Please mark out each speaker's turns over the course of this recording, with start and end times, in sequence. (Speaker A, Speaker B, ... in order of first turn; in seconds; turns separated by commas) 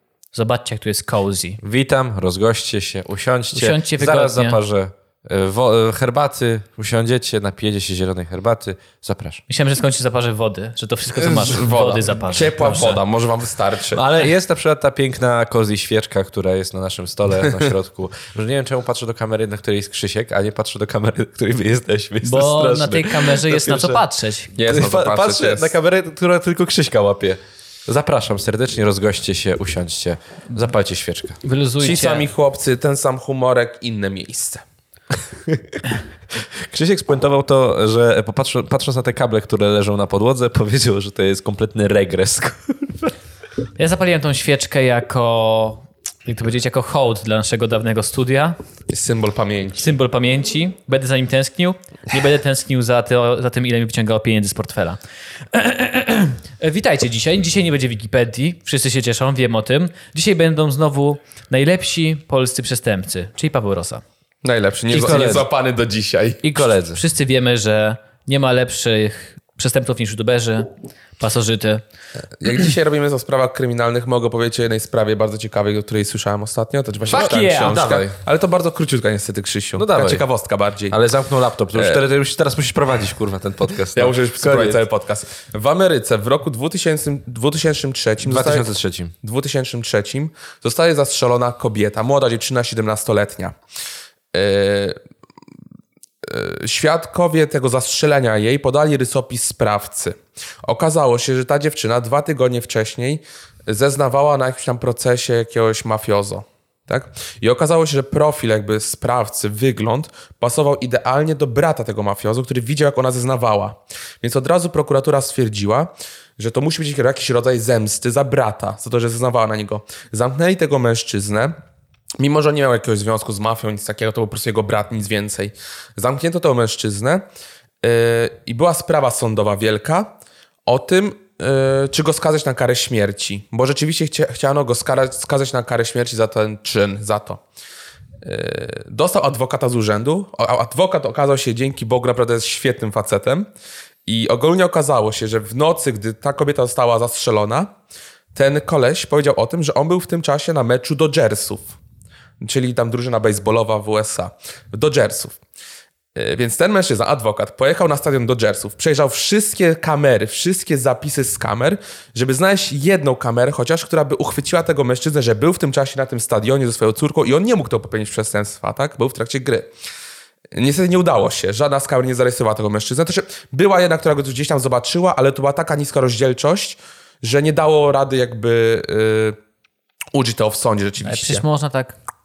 Speaker A: 0.3-1.6, Speaker B: 1.6-9.4, Speaker A: 3.5-4.6, Speaker A: 9.5-13.0, Speaker C: 11.2-14.0, Speaker B: 11.5-12.0, Speaker B: 12.6-13.0, Speaker B: 13.9-24.0, Speaker A: 22.2-24.5, Speaker C: 24.6-25.7, Speaker B: 24.6-31.4, Speaker A: 31.4-32.3, Speaker C: 31.8-34.6, Speaker B: 35.5-43.1, Speaker A: 43.8-48.6, Speaker C: 48.9-50.0, Speaker A: 49.8-55.0, Speaker A: 55.5-64.0, Speaker C: 64.4-66.4, Speaker B: 64.9-65.5, Speaker B: 66.4-67.0, Speaker A: 66.9-71.8, Speaker C: 72.4-81.0, Speaker B: 77.1-78.1, Speaker A: 77.1-77.9, Speaker B: 79.8-80.2, Speaker B: 80.9-84.8, Speaker C: 81.8-82.0, Speaker C: 83.9-88.7, Speaker B: 88.2-89.1, Speaker C: 89.2-93.6, Speaker C: 94.3-95.0, Speaker C: 96.2-121.5, Speaker C: 122.2-127.2, Speaker C: 127.8-130.2, Speaker C: 130.7-137.4, Speaker C: 138.2-143.5, Speaker C: 144.1-147.7, Speaker C: 148.3-151.7, Speaker C: 152.4-155.4, Speaker C: 156.2-169.7, Speaker C: 170.5-179.4, Speaker C: 180.1-181.4, Speaker A: 181.0-182.0